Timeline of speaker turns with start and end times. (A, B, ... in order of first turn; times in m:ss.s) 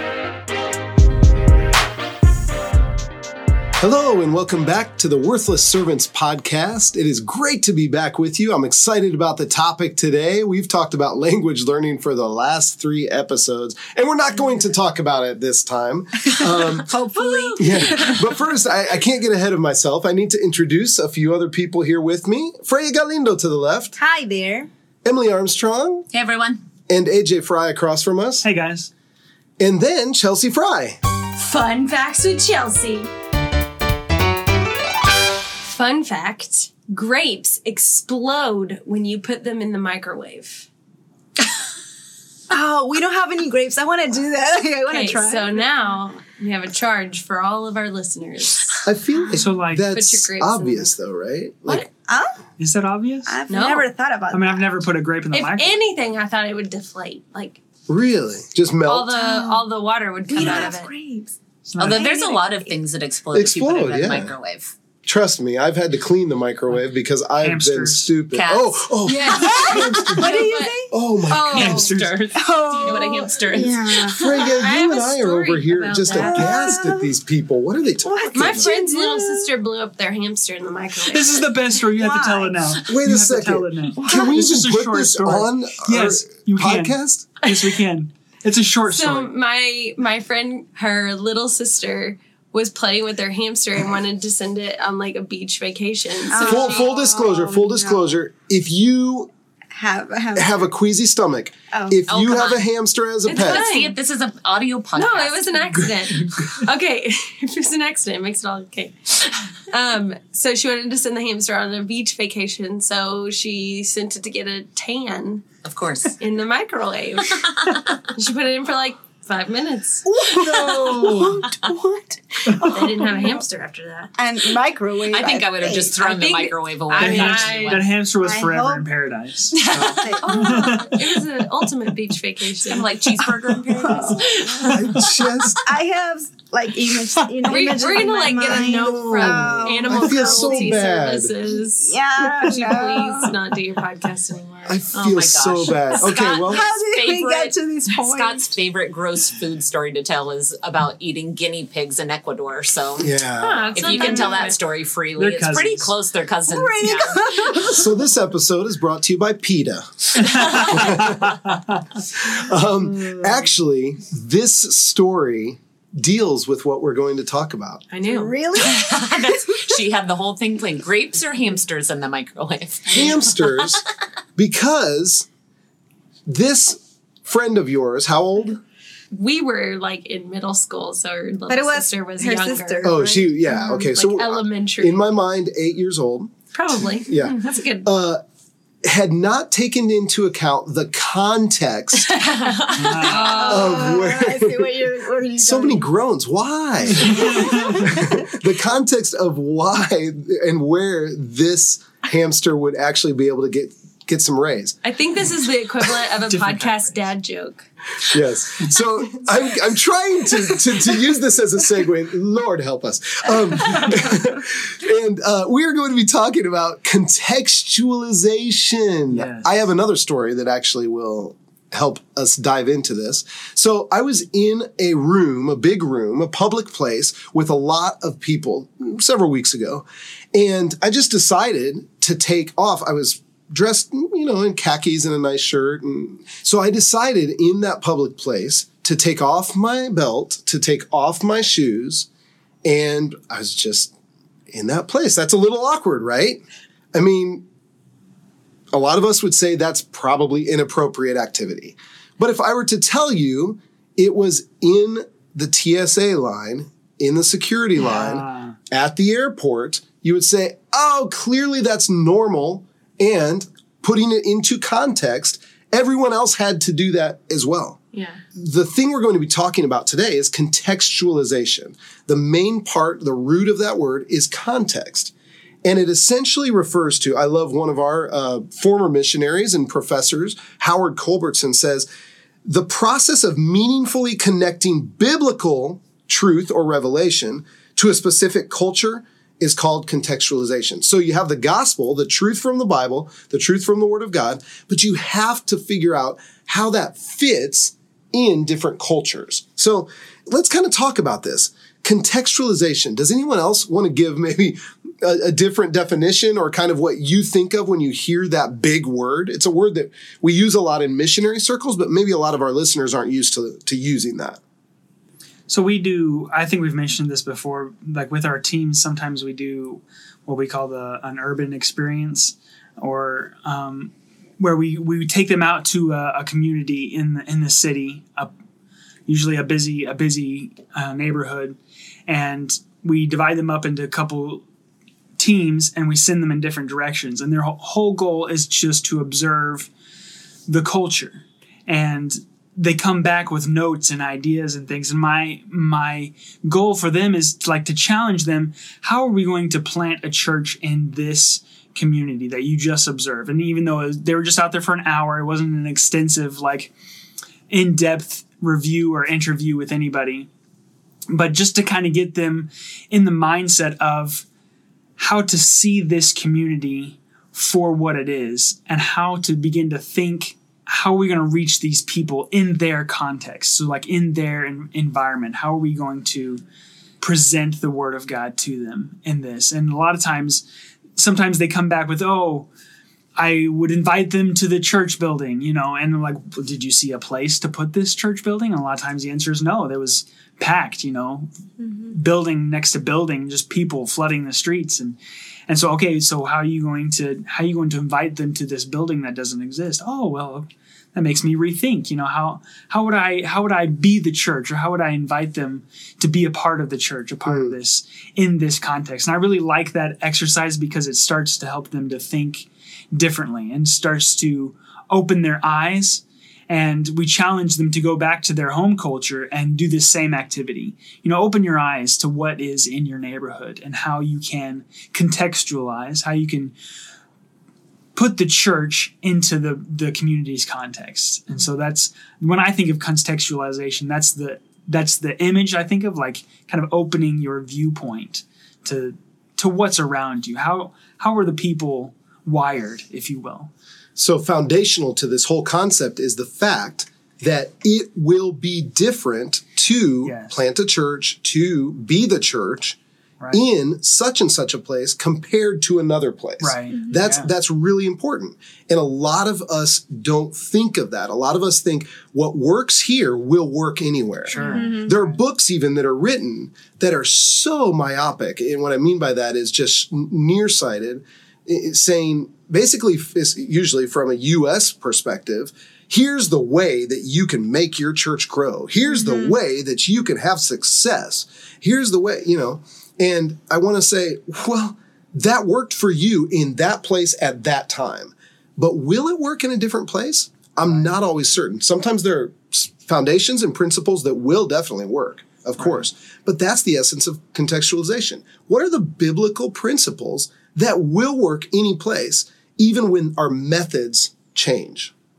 0:03.8-0:16.9 A
0:16.9-0:18.2 B
0:17.1-0:18.1 C
0:17.3-0:17.8 D
0:17.6-0:24.0 A
0:24.0-0:24.7 B
0:25.0-0:26.1 A
0:26.1-0:26.6 C
0:26.9-0:28.4 A
0:28.4-0:28.9 E
0:29.6-0:31.0 A
0:31.4-0:33.1 D
0:35.6-0:40.7 D
0:42.5-0:45.7 B
0:44.9-0:48.9 D
0:48.8-0:51.9 A
0:49.3-0:49.9 E
0:49.9-0:50.9 D
0:52.0-0:52.4 B
0:52.6-0:53.4 E
0:53.3-0:54.6 B
0:53.5-0:53.9 D
0:54.3-0:55.8 E
0:55.3-0:57.6 D
0:57.9-0:59.1 A
0:58.8-1:00.9 D
0:59.1-0:59.6 B
1:00.3-1:01.3 B
1:01.6-1:02.1 E
1:01.8-1:04.7 C
1:01.9-1:02.5 B
1:03.3-1:04.3 A
1:05.0-1:11.9 A
1:07.4-1:08.1 E
1:08.3-1:10.7 C
1:09.1-1:10.7 D
1:09.7-1:10.9 B
1:11.3-1:16.9 D
1:11.5-1:12.2 E
1:12.2-1:14.2 C
1:12.4-1:14.2 B
1:14.1-1:18.7 A
1:16.1-1:17.1 B
1:18.0-1:19.5 B
1:18.3-1:21.5 D
1:21.1-1:29.3 E
1:21.9-1:22.8 B
1:22.8-1:27.3 A
1:24.0-1:24.4 B
1:28.9-1:36.9 D
1:36.3-1:38.1 B
1:36.4-1:39.3 A
1:39.7-1:40.7 B
1:40.3-1:43.7 A
1:41.7-1:42.0 B
1:42.0-1:42.6 C
1:43.3-1:44.0 D
1:43.3-1:45.8 C
1:44.9-1:55.5 D
1:45.8-1:46.6 A
1:55.6-1:56.2 C
1:56.2-2:00.5 D
1:57.3-1:57.8 C
2:00.2-2:01.4 B
2:00.2-2:02.0 A
2:02.4-2:03.4 B
2:02.6-2:04.1 D
2:04.2-2:06.5 B
2:05.0-2:07.8 C
2:06.9-2:07.8 D
2:07.0-2:11.2 E
2:08.2-2:08.9 B
2:09.5-2:13.2 D
2:09.7-2:10.7 B
2:12.6-2:14.5 C
2:13.5-2:14.7 B
2:14.1-2:14.7 D
2:14.6-2:15.7 A
2:15.6-2:20.9 B
2:17.4-2:24.8 D
2:18.4-2:21.3 A
2:21.8-2:23.3 B
2:24.6-2:26.6 A
2:24.9-2:33.1 C
2:26.0-2:28.4 B
2:33.0-2:34.2 A
2:33.4-2:34.6 D
2:33.7-2:37.6 C
2:35.2-2:35.9 E
2:36.5-2:37.9 B
2:37.5-2:47.8 A
2:40.2-2:41.8 E
2:40.3-2:40.8 C
2:42.8-2:43.5 B
2:47.9-2:48.4 D
2:48.0-2:49.7 B
2:48.6-2:53.8 C
2:52.9-2:53.8 A
2:54.4-2:55.3 A
2:56.3-2:58.6 A
2:59.1-3:05.1 D
3:01.5-3:03.4 B
3:02.8-3:06.4 A
3:06.5-3:07.9 D
3:07.0-3:08.2 A
3:08.8-3:12.2 A
3:12.0-3:14.0 D
3:12.7-3:13.3 E
3:13.0-3:15.9 B
3:13.2-3:14.7 A
3:15.4-3:24.8 A
3:17.0-3:17.9 E
3:17.0-3:18.3 B
3:24.8-3:27.7 D
3:26.3-3:26.7 E
3:28.0-4:02.1 A
3:39.1-3:39.5 E
4:02.6-4:03.9 A
4:04.5-4:06.4 A
4:06.9-4:07.4 A
4:08.7-4:27.8 A
4:17.8-4:18.6 E
4:27.9-4:28.2 D
4:28.3-4:35.1 A
4:35.6-4:41.9 A
4:42.4-5:14.4 A
5:15.5-5:28.3 E
5:29.1-5:34.4 E
5:35.2-5:39.7 E
5:40.5-5:56.7 E
5:57.5-6:00.3 E
6:01.1-6:04.2 E
6:05.0-6:16.4 E
6:17.0-6:20.4 E
6:21.0-6:22.5 E
6:23.2-6:31.3 E
6:31.9-6:35.0 E
6:35.5-7:06.5 E
6:47.3-6:47.5 A
7:07.9-7:23.5 E
7:24.0-7:32.8 A
7:30.0-7:30.3 E
7:33.3-8:24.9 A
7:36.4-7:37.3 E
7:44.3-7:45.2 E
7:44.5-7:44.9 B
7:59.0-7:59.4 B
8:15.6-8:15.8 E